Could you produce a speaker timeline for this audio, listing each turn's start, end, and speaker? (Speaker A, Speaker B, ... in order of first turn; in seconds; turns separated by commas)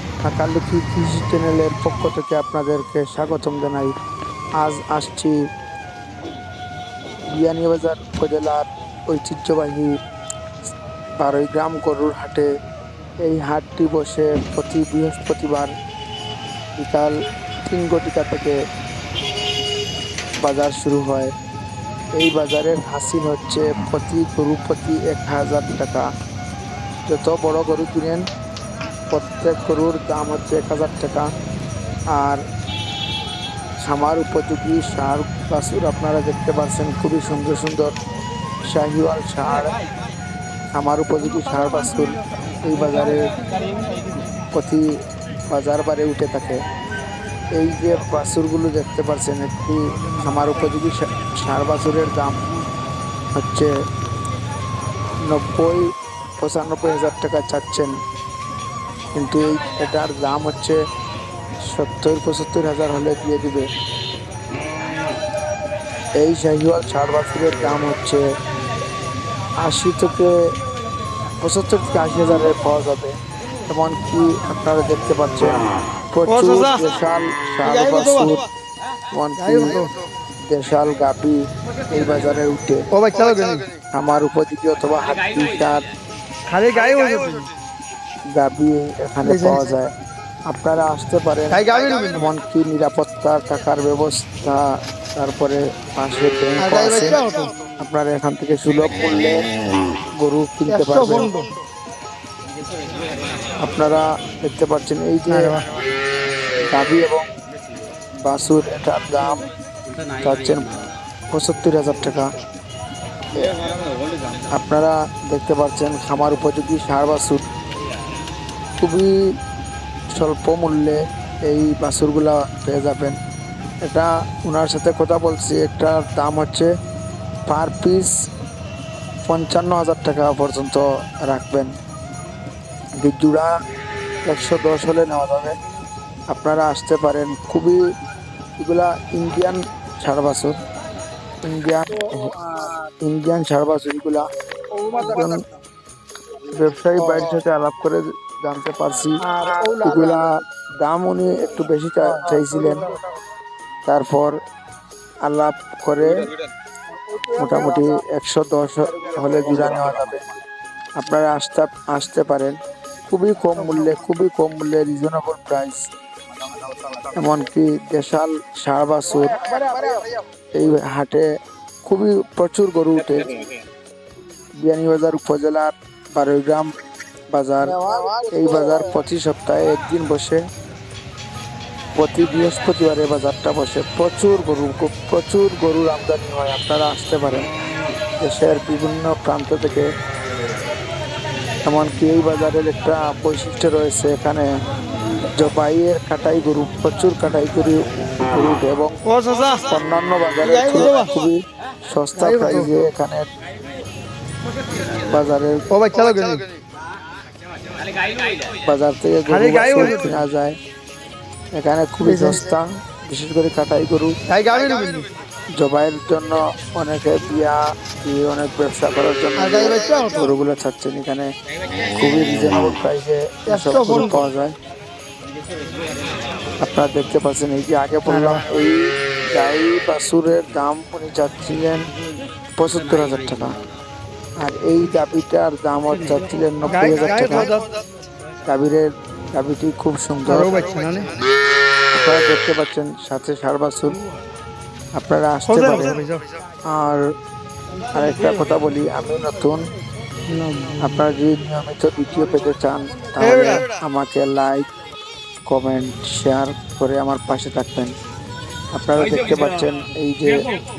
Speaker A: 0.2-3.9, Speaker A: 4.6-5.3, Speaker A: 7.3-9.9, Speaker A: 11.2-12.5, Speaker A: 13.2-15.7, Speaker A: 16.8-17.1, Speaker A: 17.6-18.6, Speaker A: 20.4-21.3, Speaker A: 22.1-26.1, Speaker A: 27.1-28.2, Speaker A: 29.1-31.2, Speaker A: 32.1-32.4, Speaker A: 33.8-37.9, Speaker A: 38.7-39.7, Speaker A: 40.8-43.2, Speaker A: 44.5-44.8, Speaker A: 45.5-46.6, Speaker A: 47.6-52.4, Speaker A: 53.4-53.7, Speaker A: 55.3-57.9, Speaker A: 59.1-60.8, Speaker A: 61.7-63.7, Speaker A: 66.2-68.2, Speaker A: 69.6-70.3, Speaker A: 71.4-73.1, Speaker A: 73.7-75.6, Speaker A: 76.1-78.4, Speaker B: 76.3-76.8, Speaker B: 77.6-78.5, Speaker A: 79.1-79.8, Speaker B: 79.4-79.9, Speaker A: 80.5-81.4, Speaker A: 81.9-82.8, Speaker B: 82.9-83.7, Speaker A: 83.9-85.8, Speaker B: 86.5-87.5, Speaker A: 88.3-89.9, Speaker B: 89.2-89.7, Speaker A: 90.5-91.6, Speaker B: 91.5-92.2, Speaker A: 92.1-94.6, Speaker A: 95.2-97.1, Speaker B: 96.6-97.5, Speaker A: 97.8-99.4, Speaker A: 100.2-101.3, Speaker B: 100.7-101.5, Speaker A: 103.6-105.5, Speaker B: 105.3-105.6, Speaker A: 106.7-107.3, Speaker A: 108.2-109.4, Speaker A: 110.2-110.7, Speaker A: 111.3-112.3, Speaker A: 114.5-117.4, Speaker A: 118.8-119.1, Speaker A: 120.1-123.2, Speaker A: 123.8-126.7, Speaker A: 127.5-128.1, Speaker A: 129.3-131.7, Speaker A: 133.0-133.5, Speaker A: 134.2-135.5, Speaker A: 136.3-137.8, Speaker A: 138.6-140.6, Speaker A: 141.4-142.3, Speaker A: 143.0-144.2, Speaker B: 144.9-145.2, Speaker A: 145.0-145.4, Speaker A: 146.5-149.2, Speaker B: 149.3-150.1, Speaker A: 149.8-150.3, Speaker A: 150.8-152.8, Speaker A: 153.8-154.3, Speaker A: 155.2-156.1, Speaker B: 157.2-157.6, Speaker A: 157.4-160.2, Speaker A: 161.0-162.5, Speaker A: 163.1-165.8, Speaker A: 167.2-169.4, Speaker A: 170.5-171.2, Speaker A: 171.8-173.3, Speaker A: 174.6-176.7, Speaker A: 177.3-177.7, Speaker B: 177.8-178.4, Speaker A: 178.3-180.4, Speaker A: 182.0-187.5, Speaker A: 188.2-189.9, Speaker A: 191.6-194.5, Speaker A: 195.4-198.9, Speaker B: 199.1-199.7, Speaker A: 199.7-203.3, Speaker B: 200.4-201.1, Speaker B: 202.2-202.7, Speaker A: 205.1-205.6, Speaker B: 205.7-206.5, Speaker A: 208.7-210.6, Speaker B: 209.3-210.2, Speaker A: 211.5-214.1, Speaker B: 212.0-212.5, Speaker B: 214.3-215.1, Speaker A: 215.6-221.3, Speaker B: 219.4-220.2, Speaker A: 221.9-224.5, Speaker B: 223.5-224.2, Speaker A: 226.6-228.8, Speaker B: 228.1-228.4, Speaker A: 229.3-231.8, Speaker A: 232.6-233.6, Speaker A: 234.4-237.4, Speaker B: 236.7-237.7, Speaker A: 238.5-240.6, Speaker B: 240.3-241.1, Speaker A: 241.9-244.0, Speaker A: 244.9-246.0, Speaker B: 245.5-246.2, Speaker A: 246.7-247.0, Speaker A: 247.9-249.6, Speaker B: 250.3-250.8, Speaker A: 250.8-254.7, Speaker B: 253.2-253.6, Speaker A: 255.5-257.9, Speaker A: 258.7-260.5